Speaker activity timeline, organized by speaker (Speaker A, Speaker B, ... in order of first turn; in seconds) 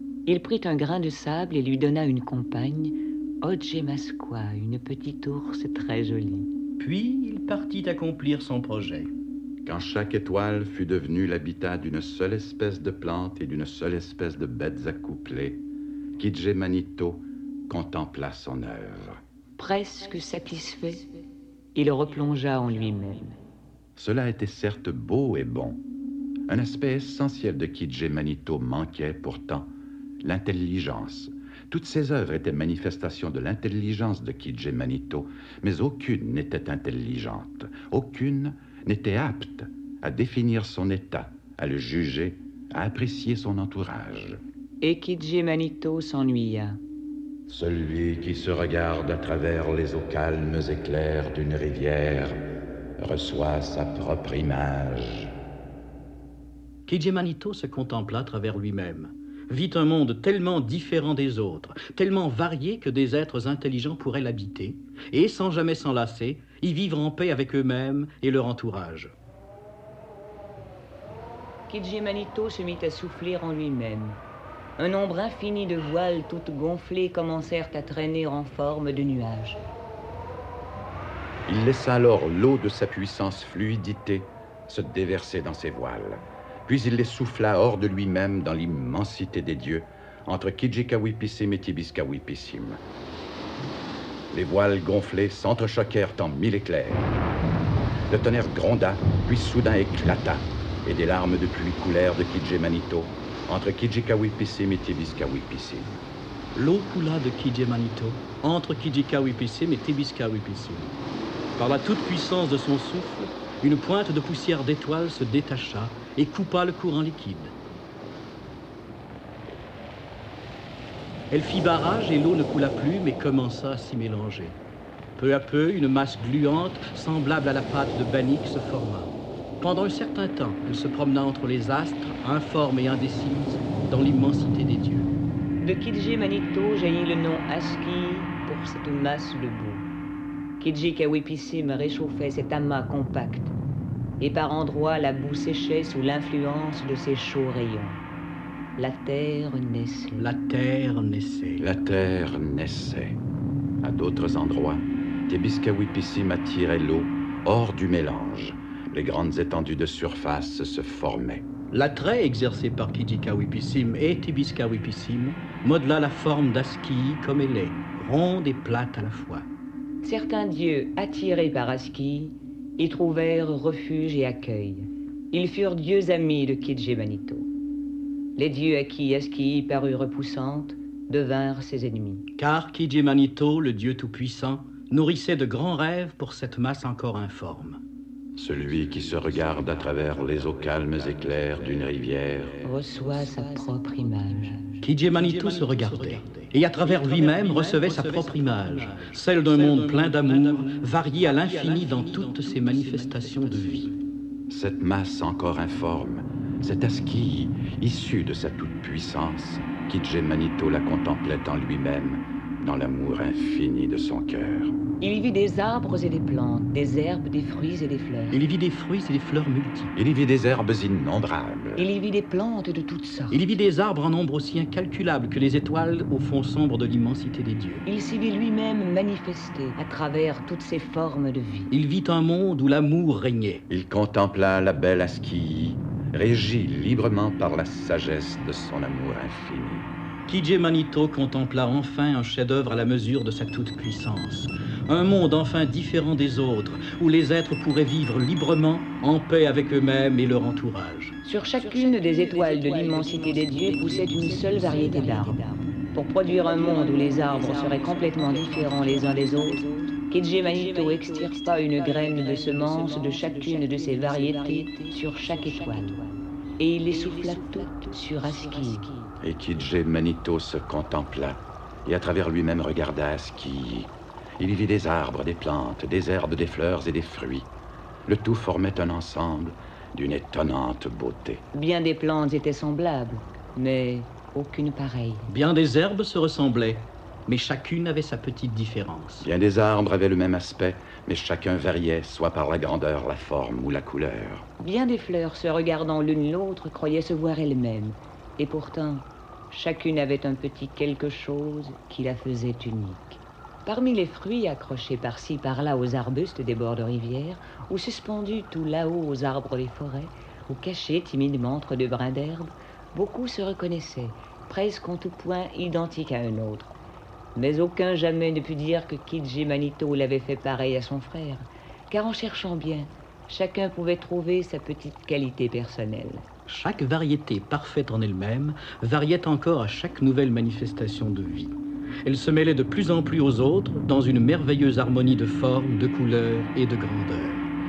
Speaker A: 0.3-6.5, 19.6-21.1, 21.7-23.4, 44.8-46.8, 71.7-74.2, 74.8-79.6, 135.6-139.9, 140.6-143.5, 144.2-148.0, 148.8-150.3, 170.0-177.5, 178.4-182.2, 192.6-194.7, 215.0-218.4, 221.8-223.4, 227.8-231.7, 251.2-268.9, 281.5-285.3, 294.6-316.7, 317.3-326.2
Speaker B: 6.8-9.1, 56.9-69.1, 106.5-110.9, 111.6-117.5, 121.3-124.6, 125.2-135.1, 150.2-151.6, 161.7-169.4, 182.4-187.8, 194.8-203.9, 218.3-219.9, 223.3-227.8, 231.7-233.6, 240.3-251.2, 285.3-289.3, 326.5-337.4
Speaker C: 9.6-15.6, 16.2-19.2, 23.9-25.8, 26.5-44.4, 47.5-52.4, 53.0-55.3, 81.5-92.8, 94.3-97.1, 98.1-106.0, 151.6-153.2, 153.8-161.4, 188.3-192.7, 204.5-214.8, 219.9-221.9, 233.7-239.9, 269.2-277.5, 278.1-281.4, 289.2-294.5